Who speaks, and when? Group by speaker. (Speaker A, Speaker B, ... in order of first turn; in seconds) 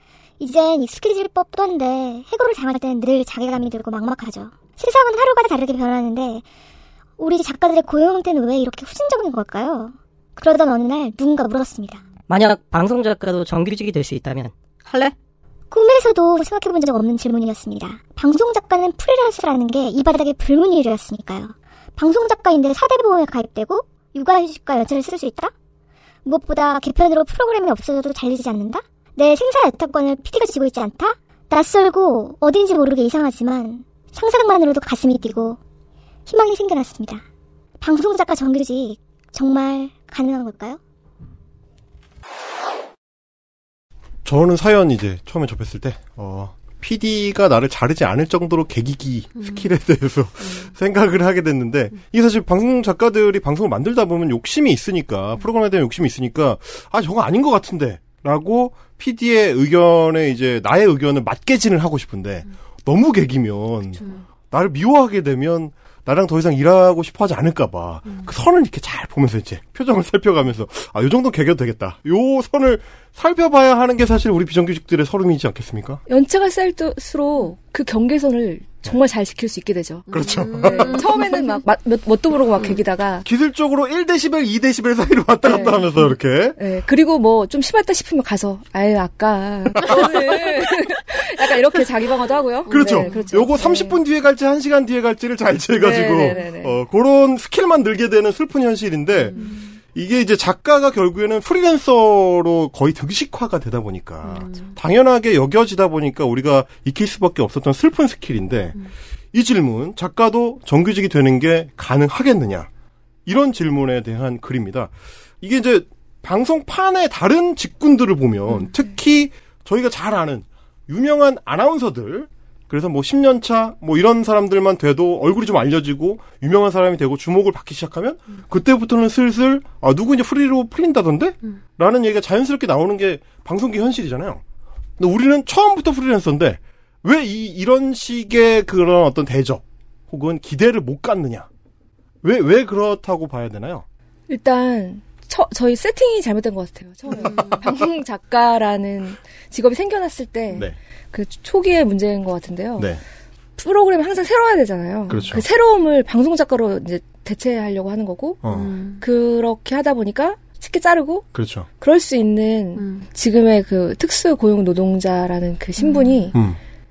Speaker A: 0.4-6.5, 7.2-12.0, 15.7-25.5, 26.2-35.6, 36.3-37.2, 37.8-40.8
Speaker B: 12.3-15.1
Speaker C: 44.2-76.0, 80.1-81.0, 83.2-86.6, 89.8-90.3, 92.7-108.8, 109.3-112.7, 113.2-134.4, 135.0-141.5, 142.2-143.8, 147.1-147.7, 155.1-155.4, 158.4-158.7, 161.3-161.7, 166.3-166.6
Speaker D: 49.4-49.7, 50.4-50.7, 80.1-81.6, 92.7-93.3, 99.2-99.5, 104.2-104.8, 147.2-147.7, 158.5-159.0, 162.8-163.1, 165.8-166.3
Speaker E: 76.1-83.2, 85.4-85.9, 86.6-94.0, 95.8-96.8, 99.4-99.8, 144.3-152.9, 153.6-158.4, 159.0-161.3, 161.8-166.3